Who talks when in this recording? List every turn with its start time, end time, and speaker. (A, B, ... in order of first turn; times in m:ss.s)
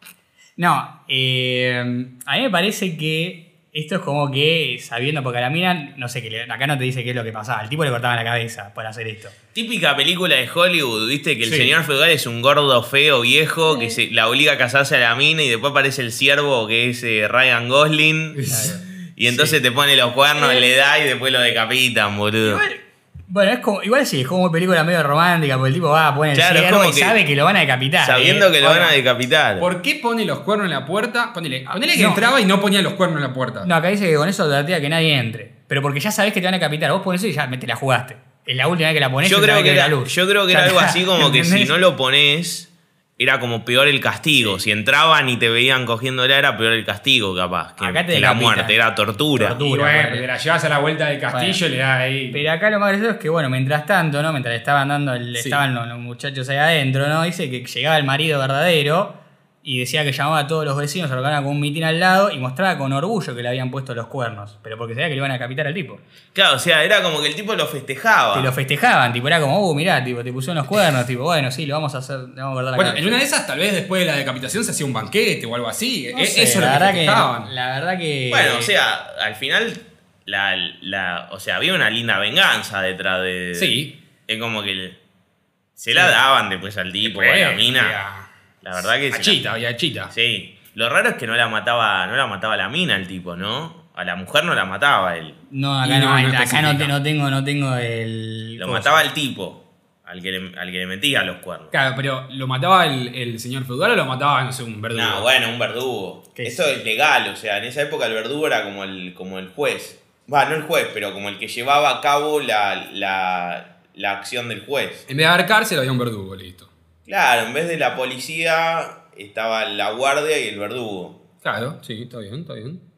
0:00.6-0:09.3 A
0:09.5-0:18.4 B
0:11.4-0:11.8 C
0:13.7-0:14.0 A
0:18.3-0:19.6 C
0:18.5-0:18.8 A
0:19.2-0:22.6 B
0:20.3-0:20.6 A
0:22.4-0:28.5 A
0:26.3-0:27.2 B
0:28.0-0:29.7 B
0:28.6-0:28.9 C
0:29.6-0:33.7 C
0:31.7-0:32.2 A
0:33.6-0:41.8 A
0:39.2-0:49.6 B
0:47.8-0:48.8 A
0:49.3-0:50.3 A
0:49.6-0:52.4 C
0:51.3-0:51.6 A
0:52.3-1:06.0 A
0:55.3-0:55.6 C
1:06.3-1:08.5 B
1:08.3-1:13.2 A
1:12.7-1:17.5 C
1:16.1-1:18.7 A
1:18.3-1:23.8 B
1:23.5-1:23.9 C
1:24.3-1:25.0 B
1:25.8-1:28.0 B
1:27.0-1:28.3 C
1:28.6-1:29.4 B
1:29.1-1:30.1 C
1:30.1-1:35.4 B
1:35.5-1:39.0 A
1:35.8-1:36.9 C
1:38.6-1:41.7 B
1:41.7-1:45.2 C
1:44.9-1:55.0 B
1:46.4-1:46.8 A
1:55.1-1:56.7 C
1:57.1-2:01.2 B
2:01.4-2:02.8 C